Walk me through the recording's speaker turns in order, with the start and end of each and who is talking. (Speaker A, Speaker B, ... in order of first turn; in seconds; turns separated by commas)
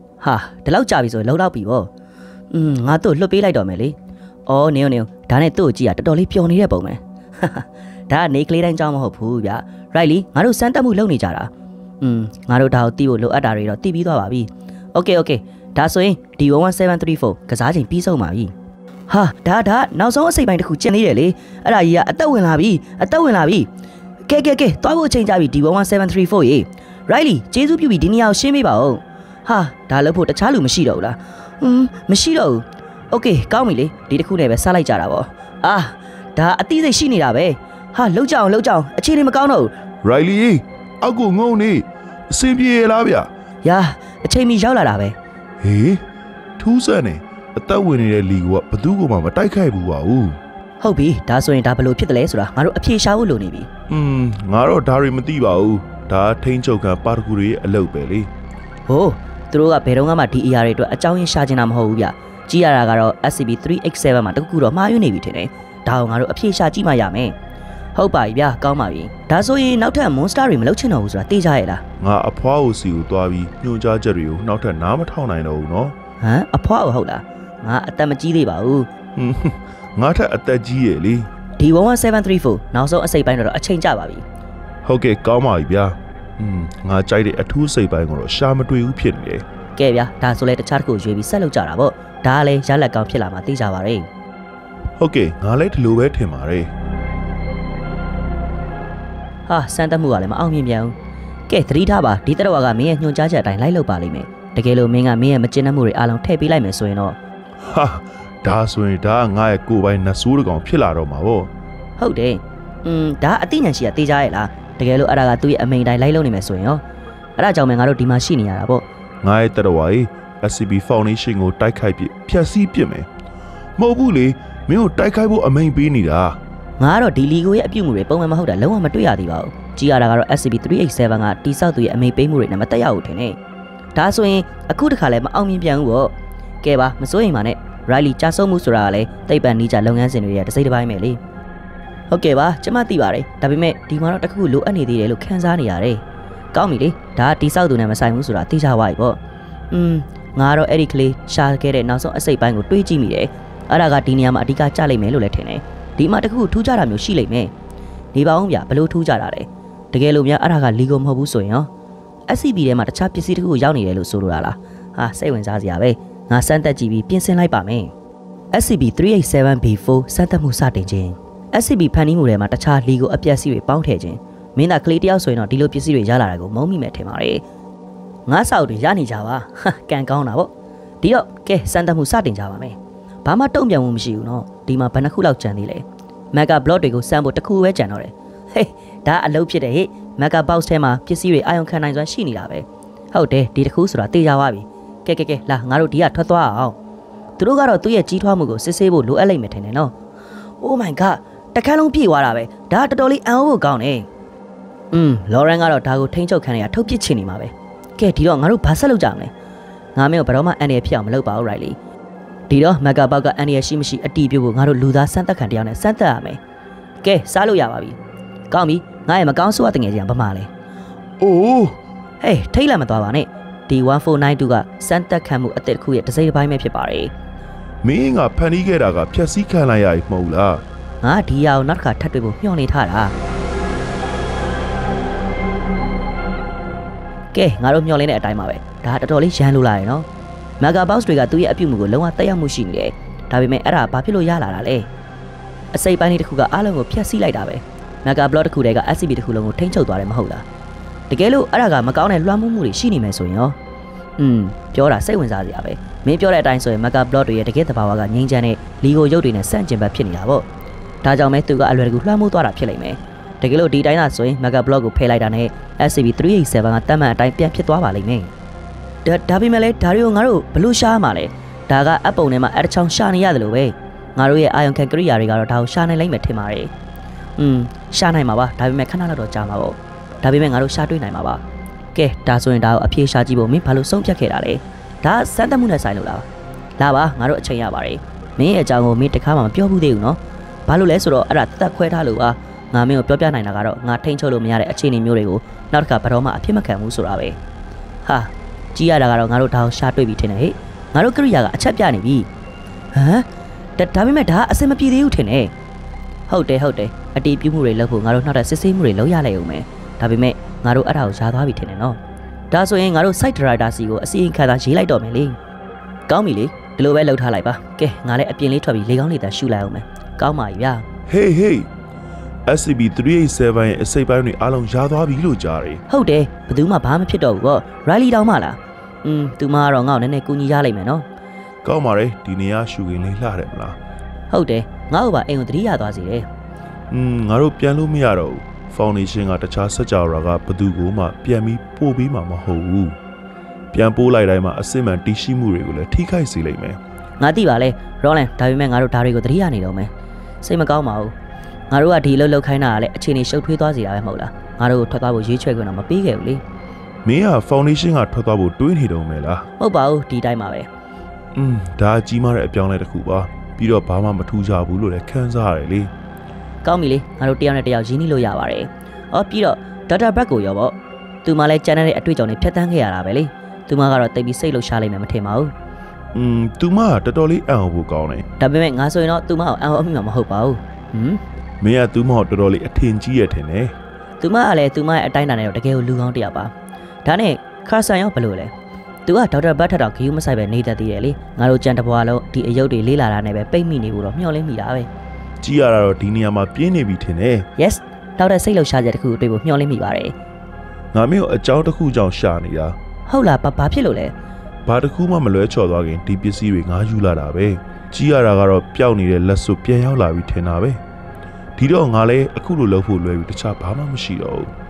Speaker A: 0.2-1.9, Speaker A: 2.5-4.0, Speaker A: 4.5-18.5, Speaker A: 19.1-23.7, Speaker A: 24.3-39.7, Speaker B: 40.0-43.3, Speaker A: 43.6-45.1, Speaker B: 45.6-46.0, Speaker B: 46.6-50.4, Speaker A: 50.8-53.7, Speaker B: 53.9-58.3, Speaker A: 58.9-67.3, Speaker A: 68.0-71.8, Speaker B: 72.0-75.9, Speaker A: 76.2-78.9, Speaker B: 79.2-81.3, Speaker A: 81.6-84.2, Speaker B: 84.8-89.4, Speaker A: 89.8-94.1, Speaker B: 95.0-96.7, Speaker A: 99.5-100.9, Speaker A: 101.5-107.2, Speaker B: 107.6-111.5, Speaker A: 112.0-116.8, Speaker A: 117.4-118.8, Speaker B: 119.2-123.1, Speaker B: 123.8-126.4, Speaker A: 126.8-133.4, Speaker A: 133.9-141.2, Speaker A: 142.1-146.0, Speaker A: 146.5-149.2, Speaker A: 149.7-157.5, Speaker A: 158.1-161.7, Speaker A: 162.3-167.9, Speaker A: 168.5-177.4, Speaker A: 178.3-180.5, Speaker A: 181.0-196.8, Speaker A: 197.4-199.9, Speaker A: 200.6-204.1, Speaker A: 204.9-209.3, Speaker A: 209.9-211.8, Speaker A: 212.5-216.4, Speaker A: 217.0-218.0, Speaker A: 218.5-220.5, Speaker B: 221.2-221.8, Speaker A: 222.2-227.1, Speaker B: 227.8-230.6, Speaker A: 231.0-233.1, Speaker A: 237.3-240.1, Speaker A: 240.6-244.9, Speaker A: 245.7-250.4, Speaker A: 251.1-253.6, Speaker A: 254.2-260.4, Speaker A: 261.0-268.3, Speaker A: 269.0-276.7, Speaker A: 277.4-281.4, Speaker A: 281.9-286.2, Speaker A: 286.8-297.4, Speaker A: 298.0-302.3, Speaker A: 302.9-303.2, Speaker A: 303.8-305.5, Speaker A: 306.3-312.0, Speaker A: 312.5-315.4, Speaker A: 316.1-320.9, Speaker B: 321.1-321.7, Speaker B: 322.5-325.8, Speaker A: 325.9-331.0, Speaker B: 331.6-333.8, Speaker A: 334.3-336.2, Speaker B: 336.9-343.0, Speaker B: 343.7-346.8, Speaker A: 347.2-349.9, Speaker A: 350.4-351.1, Speaker A: 351.7-356.4, Speaker B: 357.0-359.5, Speaker A: 359.6-360.7, Speaker B: 361.3-365.9, Speaker A: 366.6-375.5, Speaker B: 376.1-378.2, Speaker A: 378.4-381.2, Speaker B: 381.6-383.7, Speaker A: 384.2-386.5, Speaker A: 387.0-388.5, Speaker A: 389.1-394.9, Speaker B: 395.4-397.4, Speaker A: 397.6-400.1, Speaker B: 400.9-402.8, Speaker A: 403.1-404.1, Speaker B: 404.6-410.8, Speaker B: 411.6-414.5